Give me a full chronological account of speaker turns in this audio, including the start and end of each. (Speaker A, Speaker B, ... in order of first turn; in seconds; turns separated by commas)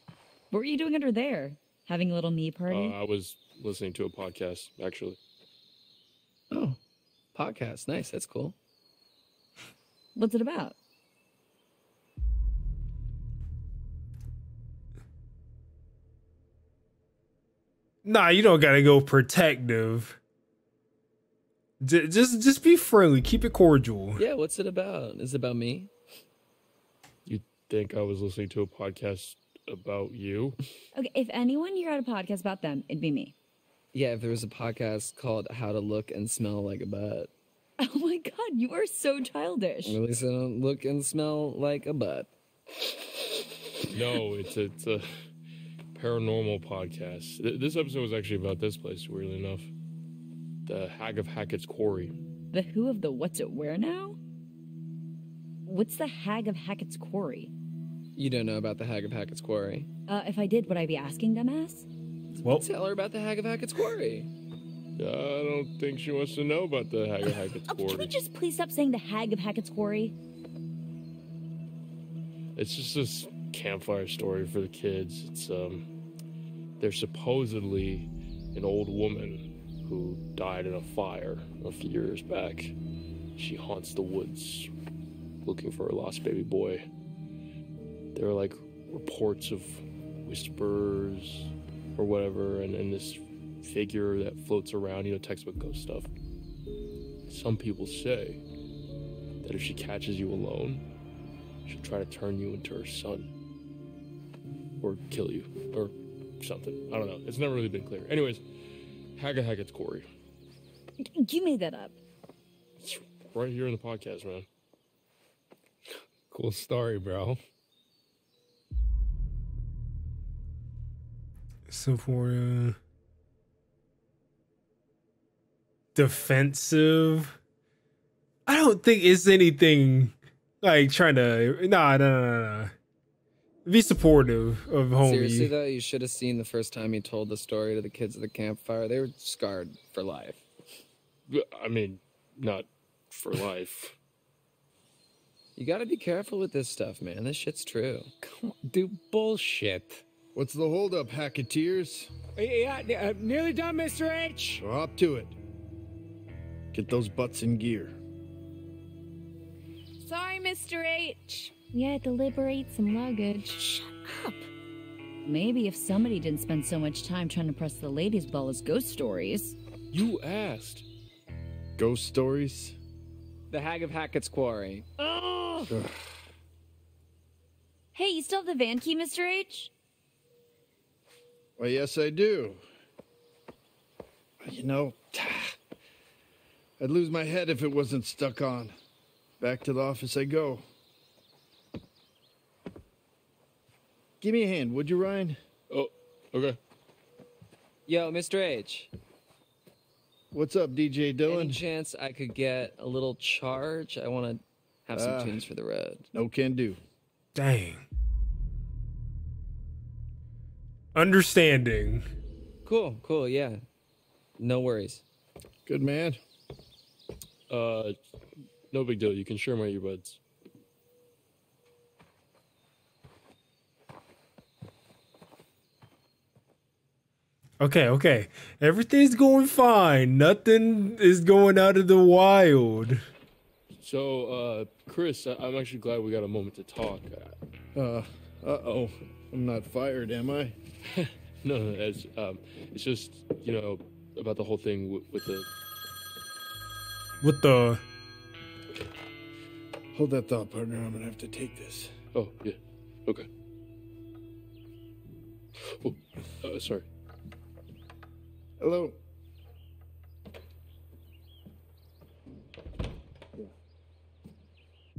Speaker A: 0.5-3.0, Speaker B: 2.7-5.2, Speaker C: 6.5-6.8, Speaker C: 7.3-8.6, Speaker A: 10.1-10.8, Speaker D: 18.1-20.2, Speaker D: 21.8-24.2, Speaker C: 24.1-25.9, Speaker B: 27.3-30.6, Speaker A: 30.9-33.4, Speaker C: 33.9-37.3, Speaker A: 37.8-40.0, Speaker C: 39.9-42.3, Speaker B: 43.9-45.3, Speaker B: 45.9-49.7, Speaker B: 50.6-52.1, Speaker A: 52.5-54.2, Speaker A: 55.6-57.5, Speaker C: 58.1-59.9, Speaker A: 60.1-61.9, Speaker C: 62.4-64.3, Speaker B: 65.0-68.1, Speaker A: 67.7-70.2, Speaker B: 72.6-75.9, Speaker B: 76.8-82.8, Speaker B: 83.4-84.7, Speaker B: 85.4-86.8, Speaker B: 88.1-96.1, Speaker B: 97.3-98.4, Speaker B: 99.4-100.8, Speaker B: 101.7-103.3, Speaker B: 104.8-108.4, Speaker B: 109.2-110.1, Speaker A: 111.0-112.0, Speaker B: 112.8-114.5, Speaker E: 116.3-117.4, Speaker D: 121.7-122.8, Speaker D: 126.0-127.4, Speaker D: 128.5-132.7, Speaker D: 133.7-135.5, Speaker C: 135.0-140.4, Speaker B: 141.3-144.0, Speaker C: 145.6-148.1, Speaker E: 148.2-150.0, Speaker F: 150.3-152.1, Speaker E: 152.4-154.6, Speaker F: 154.6-155.4, Speaker F: 156.7-158.0, Speaker G: 160.0-163.6, Speaker A: 165.2-169.6, Speaker B: 169.9-170.9, Speaker F: 171.8-172.8, Speaker C: 173.5-174.9, Speaker E: 175.0-175.7, Speaker F: 175.7-176.0, Speaker A: 177.9-179.7, Speaker F: 181.6-182.6, Speaker F: 184.4-185.5, Speaker F: 186.8-188.8, Speaker F: 189.4-190.6, Speaker F: 194.2-195.4, Speaker B: 195.7-196.6, Speaker C: 197.9-198.9, Speaker F: 200.3-201.6, Speaker C: 201.3-206.1, Speaker F: 204.9-205.4, Speaker F: 206.1-206.8, Speaker D: 207.4-207.8, Speaker D: 210.9-212.1, Speaker C: 212.6-213.6, Speaker C: 214.4-215.0, Speaker F: 215.7-216.2, Speaker B: 217.5-218.0, Speaker B: 218.7-220.2, Speaker D: 227.6-233.0, Speaker B: 233.8-237.4, Speaker F: 237.8-240.6, Speaker B: 240.9-245.5, Speaker D: 247.2-247.8, Speaker F: 249.9-251.9, Speaker B: 252.1-253.3, Speaker B: 255.6-256.9, Speaker F: 258.6-259.0